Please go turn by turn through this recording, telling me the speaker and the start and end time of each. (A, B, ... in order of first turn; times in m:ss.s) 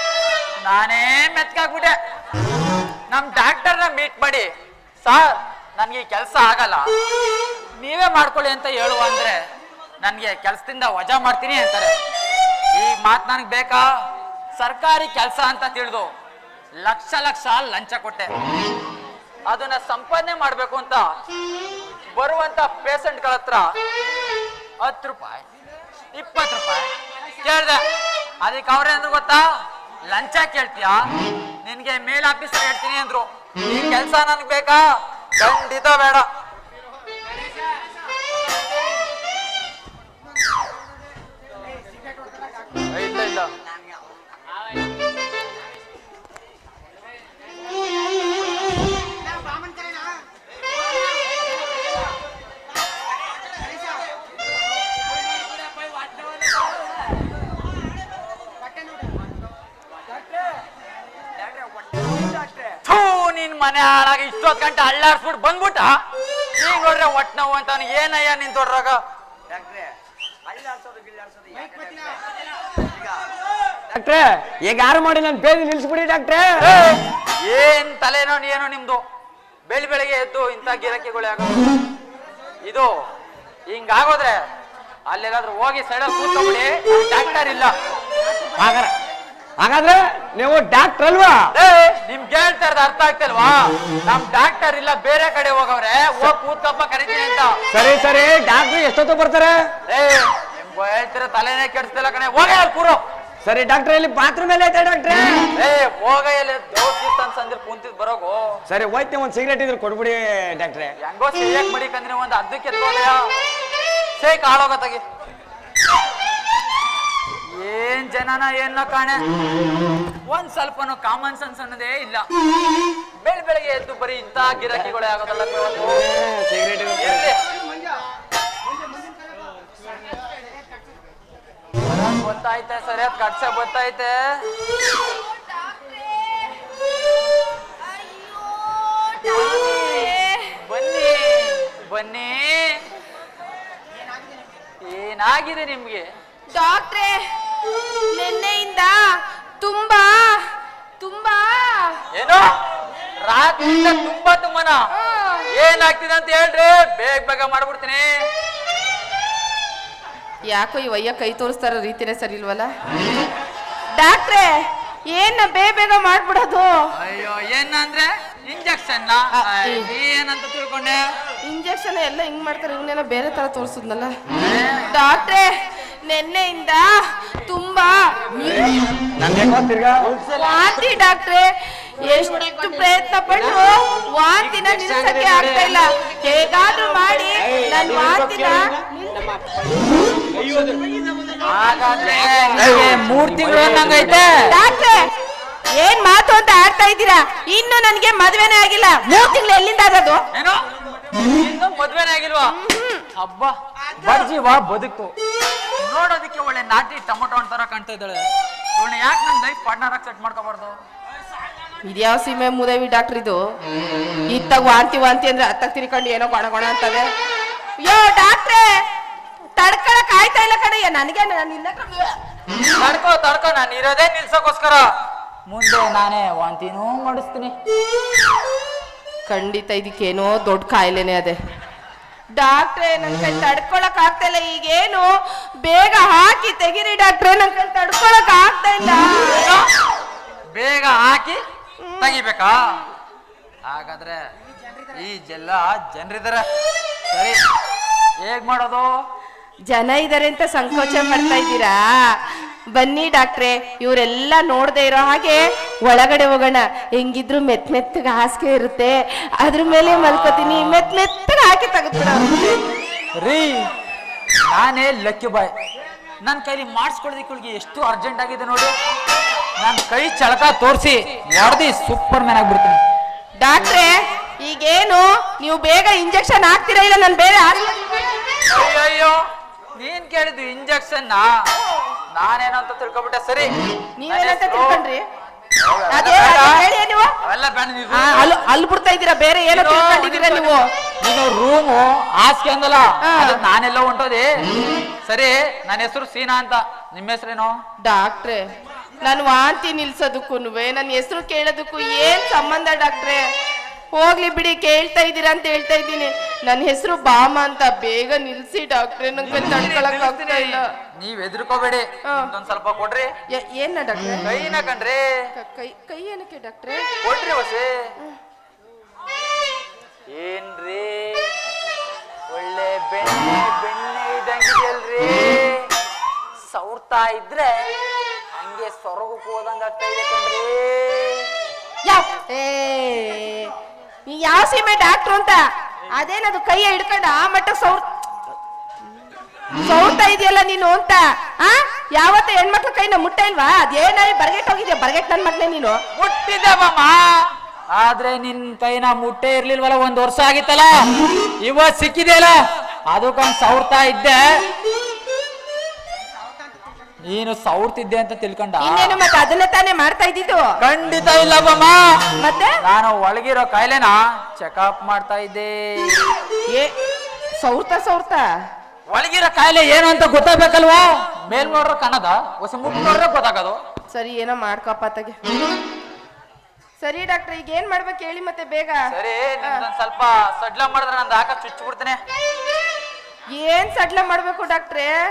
0:00.6-0:02.0 A
0:03.1-0:04.5 A
0:05.0-0:06.8 A
0:07.8-0:09.4 A
0:10.0-0:12.0 A
0:12.7-0:13.8 A
0:14.6-0:16.1 A
0:16.8-0:18.3 A
0:19.5-0:21.1 A
0:22.1-0:23.7 A
0:24.8-0:25.4 A
0:26.1-0:26.9 A
0:27.4-0:27.8 A
0:28.4-0:29.4 A
0:30.1-0:31.0 A
0:31.6-0:34.8 A
0:35.4-0:36.3 A
0:42.9-0:43.5 A
1:01.4-1:02.8 B
1:02.8-1:06.0 A
1:06.6-1:09.0 A
1:09.5-1:09.9 B
1:10.5-1:12.1 B
1:13.9-1:16.5 B
1:16.6-1:19.0 A
1:19.7-1:21.8 A
1:22.6-1:22.9 A
1:23.7-1:24.4 A
1:25.1-1:27.7 A
1:28.6-1:28.9 B
1:29.6-1:31.5 B
1:31.5-1:37.6 A
1:37.7-1:39.6 B
1:39.9-1:43.0 A
1:43.4-1:45.5 B
1:45.5-1:48.6 A
1:48.7-1:50.9 B
1:51.0-1:53.2 A
1:54.2-1:55.0 A
1:57.6-1:59.2 A
2:00.3-2:02.3 A
2:03.2-2:06.0 A
2:05.8-2:07.3 B
2:07.0-2:07.4 A
2:11.8-2:14.4 A
2:18.0-2:20.5 C
2:19.2-2:22.8 A
2:24.8-2:26.1 A
2:26.5-2:27.2 C
2:28.1-2:29.0 C
2:29.6-2:30.4 C
2:31.0-2:32.0 C
2:32.1-2:32.5 A
2:33.2-2:34.9 A
2:35.0-2:35.5 C
2:35.5-2:38.1 A
2:40.5-2:42.7 C
2:44.0-2:44.6 C
2:45.1-2:46.7 C
2:47.0-2:51.1 A
2:49.4-2:49.9 C
2:51.4-2:54.1 C
2:54.4-2:55.0 A
2:54.9-2:55.5 C
2:56.1-2:59.0 C
2:59.2-3:00.1 B
3:00.3-3:09.5 C
3:11.4-3:14.6 A
3:14.5-3:15.1 C
3:15.8-3:20.2 C
3:20.3-3:20.6 A
3:21.2-3:22.6 A
3:22.5-3:23.1 C
3:23.1-3:25.1 A
3:25.8-3:28.2 A
3:28.8-3:30.8 A
3:31.8-3:33.4 C
3:34.3-3:37.0 C
3:37.8-3:38.7 C
3:39.6-3:42.2 C
3:42.8-3:44.8 A
3:45.5-3:47.5 A
3:49.3-3:51.4 C
3:52.4-3:55.1 C
3:55.6-3:59.5 C
3:59.3-3:59.7 A
4:00.5-4:01.4 A
4:01.9-4:02.2 C
4:02.0-4:02.8 A
4:03.6-4:04.2 A
4:04.9-4:06.5 A
4:07.1-4:07.4 A
4:08.2-4:08.9 A
4:09.7-4:12.2 C
4:12.7-4:22.6 C
4:19.7-4:20.9 A
4:23.2-4:23.7 A
4:24.5-4:25.5 A
4:26.2-4:28.7 A
4:29.6-4:32.8 A
4:33.4-4:38.3 C
4:38.5-4:39.2 A
4:39.8-4:41.3 A
4:42.1-4:43.5 A
4:44.0-4:45.0 C
4:44.1-4:44.8 A
4:45.6-4:46.6 A
4:45.9-4:47.1 C
4:47.2-4:48.4 A
4:47.9-4:50.7 C
4:49.5-4:54.3 A
4:53.0-4:53.4 C
4:55.0-4:57.6 A
4:57.8-4:58.4 C
4:59.0-5:03.2 C
5:03.9-5:10.7 C
5:09.2-5:13.1 A
5:13.3-5:14.2 C
5:14.2-5:15.1 A
5:15.4-5:16.8 C
5:17.0-5:17.8 A
5:20.1-5:21.3 A
5:22.3-5:25.7 A
5:26.5-5:27.7 A
5:28.3-5:31.3 A
5:31.8-5:33.5 C
5:34.1-5:37.9 C
5:39.6-5:45.8 C
5:46.0-5:50.8 A
5:51.4-5:52.4 A
5:52.9-5:54.4 A
5:57.0-5:59.0 A
5:58.6-6:00.4 C
6:00.6-6:01.8 A
6:02.2-6:02.6 C
6:02.6-6:06.1 A
6:07.4-6:08.2 C
6:08.9-6:13.6 A
6:13.9-6:15.2 C
6:16.8-6:18.8 C
6:18.9-6:22.0 A
6:23.4-6:25.0 C